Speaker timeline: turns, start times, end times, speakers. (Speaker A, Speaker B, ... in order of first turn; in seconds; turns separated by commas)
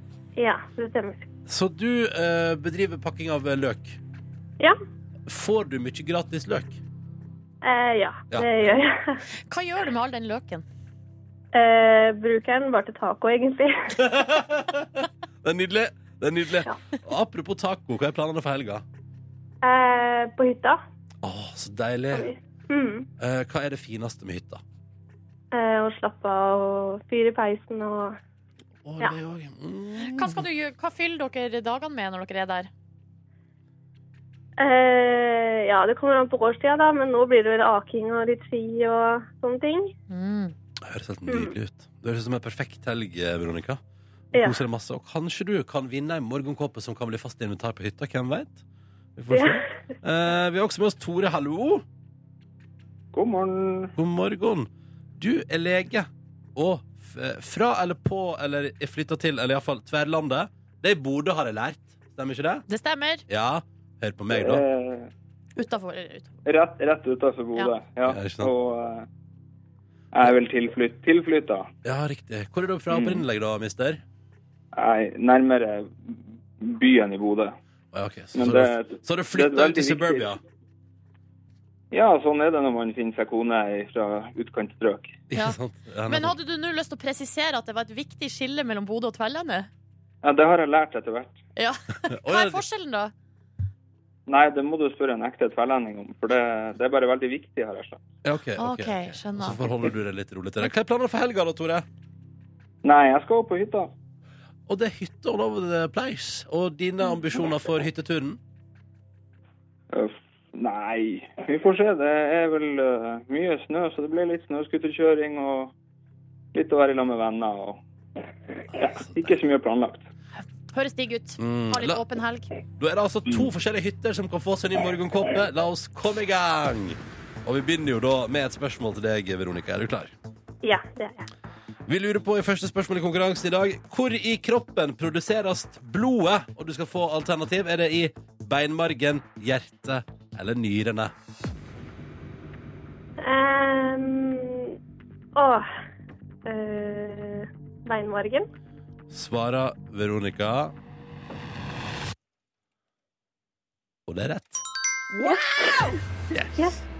Speaker A: 0.3-1.2, Speaker B: 1.5-4.0, Speaker B: 5.3-6.8, Speaker A: 7.6-9.2, Speaker C: 9.5-10.6, Speaker A: 11.5-13.9, Speaker B: 14.0-14.9, Speaker B: 15.4-18.8, Speaker A: 19.6-20.8, Speaker B: 21.2-22.3, Speaker A: 22.1-23.1, Speaker B: 23.2-24.6, Speaker A: 25.5-28.2, Speaker B: 28.8-30.4, Speaker C: 30.0-32.7, Speaker A: 34.6-39.9, Speaker C: 40.1-40.5, Speaker B: 40.8-43.8, Speaker A: 44.3-44.6, Speaker B: 44.4-48.6, Speaker B: 49.2-51.8, Speaker D: 53.1-53.9, Speaker B: 54.0-62.6, Speaker C: 62.7-63.2, Speaker B: 63.3-64.6, Speaker D: 64.3-65.1, Speaker C: 65.6-66.3, Speaker D: 66.5-69.1, Speaker B: 68.0-68.5, Speaker D: 70.1-71.7, Speaker B: 71.8-74.0, Speaker D: 72.9-73.2, Speaker D: 74.7-77.5, Speaker B: 77.9-80.4, Speaker D: 78.3-80.3, Speaker D: 81.9-85.2, Speaker B: 85.3-86.3, Speaker C: 85.3-89.7, Speaker D: 90.2-91.4, Speaker C: 91.5-93.1, Speaker B: 92.1-92.6, Speaker D: 94.3-98.0, Speaker B: 98.2-101.8, Speaker C: 98.6-99.9, Speaker D: 102.8-103.9, Speaker B: 104.7-108.4, Speaker D: 109.9-115.7, Speaker D: 116.5-117.8, Speaker D: 118.7-120.0, Speaker B: 118.9-119.3, Speaker C: 120.4-122.5, Speaker B: 121.4-122.0, Speaker B: 122.8-130.1, Speaker A: 130.6-131.3, Speaker B: 131.9-141.1, Speaker A: 143.2-144.8, Speaker A: 145.3-145.7, Speaker A: 146.4-148.4, Speaker B: 149.1-150.7, Speaker B: 154.1-154.6, Speaker C: 155.1-156.0, Speaker B: 156.3-156.8